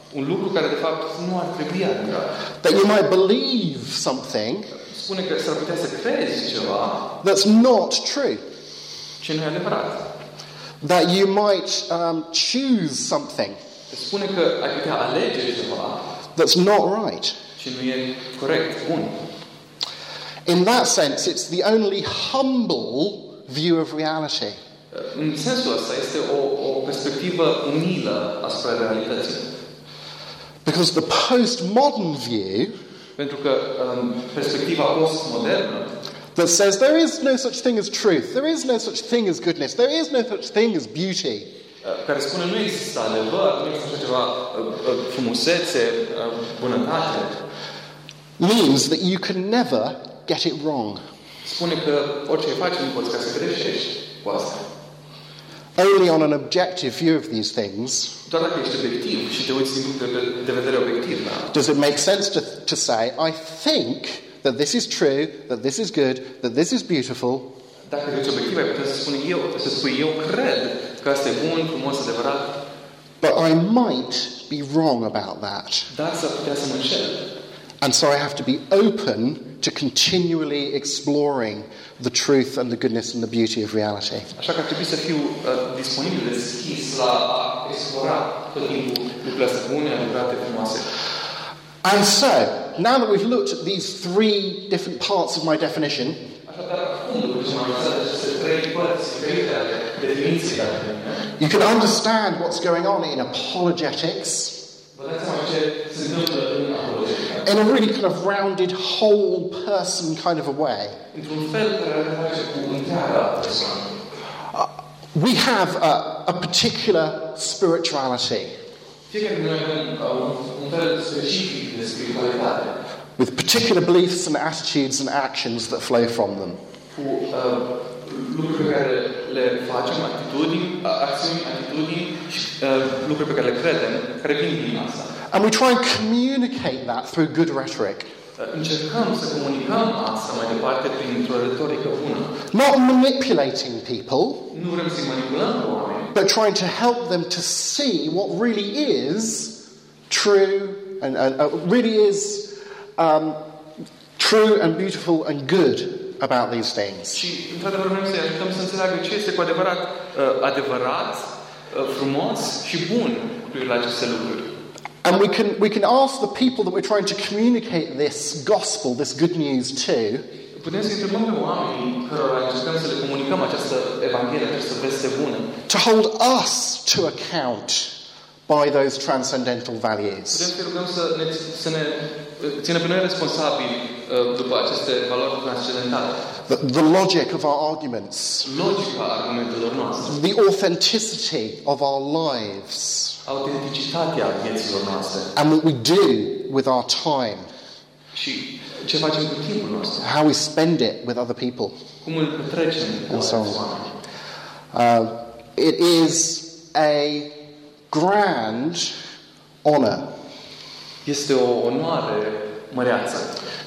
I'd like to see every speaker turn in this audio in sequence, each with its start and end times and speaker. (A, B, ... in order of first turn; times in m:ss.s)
0:00.1-0:02.4 A
0:02.6-0:04.7 B
0:04.8-0:07.1 A
0:07.2-0:08.4 B
0:09.2-0:10.0 A
0:10.8-0:13.6 B
0:13.9-0:16.0 A
0:16.4-0:17.4 B
0:17.6-0:19.2 A
0:20.5-0:24.6 B
0:24.9-0:29.5 A
0:30.6-0:32.8 B
0:33.2-0:35.9 A
0:36.4-0:41.5 B
0:41.8-0:47.4 A
0:48.4-0:51.0 B
0:51.4-0:54.6 A
0:55.8-0:58.2 B
0:58.3-1:01.5 A
1:01.5-1:07.5 B
1:07.9-1:12.6 A
1:13.2-1:15.9 B
1:15.9-1:17.3 A
1:17.8-1:24.3 B
1:24.4-1:30.9 A
1:31.8-1:36.2 B
1:36.5-1:41.3 A
1:41.4-1:44.6 B
1:44.9-1:47.5 A
1:47.4-1:51.0 B
1:51.1-1:53.9 A
1:54.5-1:58.6 B
1:59.1-2:02.7 A
2:03.2-2:06.6 B
2:06.9-2:15.1 A
2:15.3-2:18.1 B
2:18.4-2:22.3 A
2:22.5-2:24.5 B
2:24.5-2:26.1 A
2:26.1-2:33.4 B
2:34.2-2:37.2 B
2:37.1-2:44.5 A
2:45.0-2:50.3 B
2:50.5-2:55.5 A
2:55.7-2:58.0 B
2:58.5-3:00.5 B
3:00.3-3:06.2 A
3:06.5-3:08.5 B
3:08.4-3:10.2 A
3:10.1-3:13.2 B
3:13.2-3:15.3 A
3:15.4-3:17.5 B
3:18.1-3:20.1 A
3:20.0-3:21.8 B
3:22.0-3:23.9 A
3:23.1-3:23.6 B
3:24.7-3:29.0 B
3:29.6-3:30.1 B
3:31.0-3:33.4 A